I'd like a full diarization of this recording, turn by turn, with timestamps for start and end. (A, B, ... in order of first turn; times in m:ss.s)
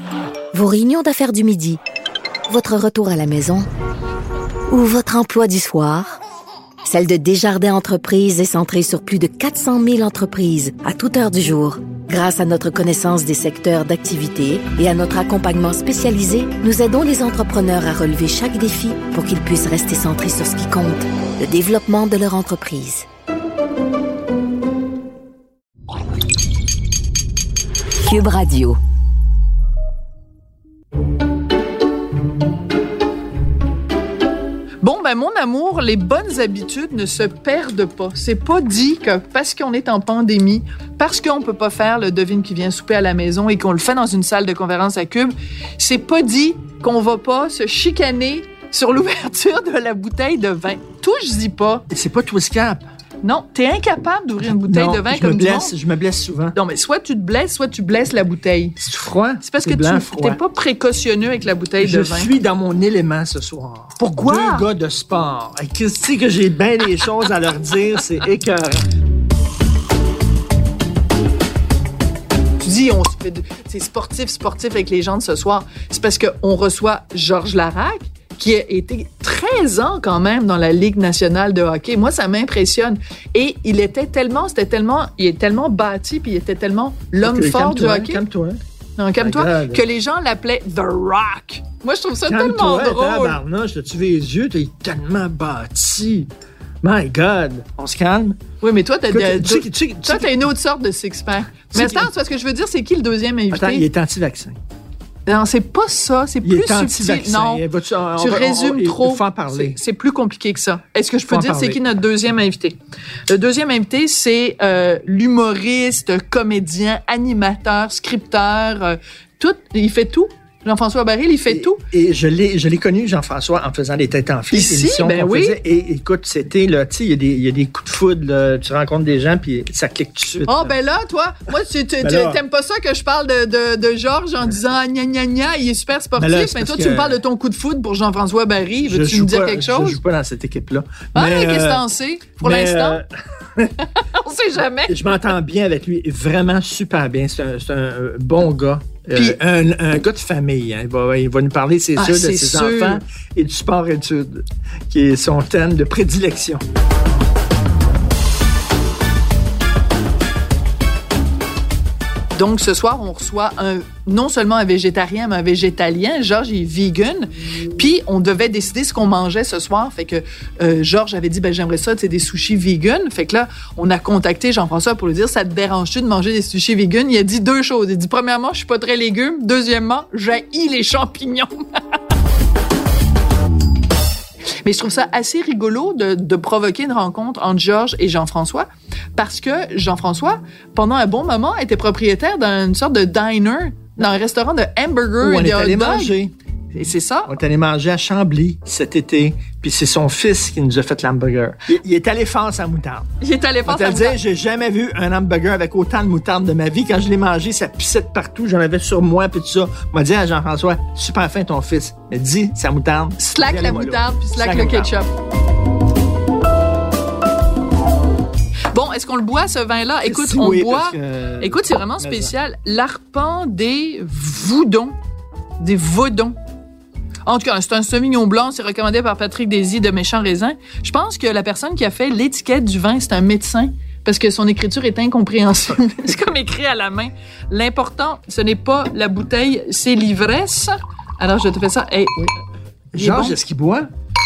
0:00.5-0:01.8 A
0:02.5-0:03.7 A
0:04.7-0:06.2 A
0:06.8-0:23.0 A
0:28.0-0:28.8 A
0:34.8-0:51.8 B
0:51.9-0:52.8 C
0:53.2-0:55.7 B
0:54.6-0:56.6 C
0:56.5-0:58.8 B
0:58.8-1:00.4 C
0:59.4-1:02.3 B
1:01.8-1:08.8 C
1:04.0-1:04.7 B
1:12.6-1:28.2 B
1:27.2-1:28.6 C
1:29.0-1:33.4 B
1:29.2-1:29.8 C
1:32.2-1:36.3 C
1:36.8-1:38.4 C
1:38.6-1:43.9 B
1:39.1-1:40.4 C
1:41.7-1:42.1 C
1:43.5-1:44.6 C
1:45.2-1:47.6 B
1:46.4-1:49.8 C
1:48.2-1:52.8 B
1:51.3-1:51.8 C
1:53.3-2:01.8 B
2:01.5-2:10.7 C
2:04.5-2:05.6 B
2:10.5-2:20.0 B
2:12.0-2:12.4 C
2:16.2-2:17.2 C
2:18.8-2:21.8 C
2:21.1-2:23.0 B
2:22.4-2:23.7 C
2:24.0-2:25.0 B
2:24.9-2:36.6 C
2:29.1-2:29.4 B
2:32.0-2:33.0 B
2:42.3-3:01.5 B
3:04.6-3:16.2 B
3:15.2-3:16.3 C
3:16.7-3:17.3 B
3:17.3-3:23.1 C
3:23.2-3:24.2 B
3:23.6-3:34.9 C
3:33.2-3:35.1 B
3:38.7-3:45.0 B
3:40.0-3:42.3 C
3:45.6-3:46.4 B
3:47.2-4:02.3 B
4:02.9-4:03.9 C
4:02.9-4:03.4 B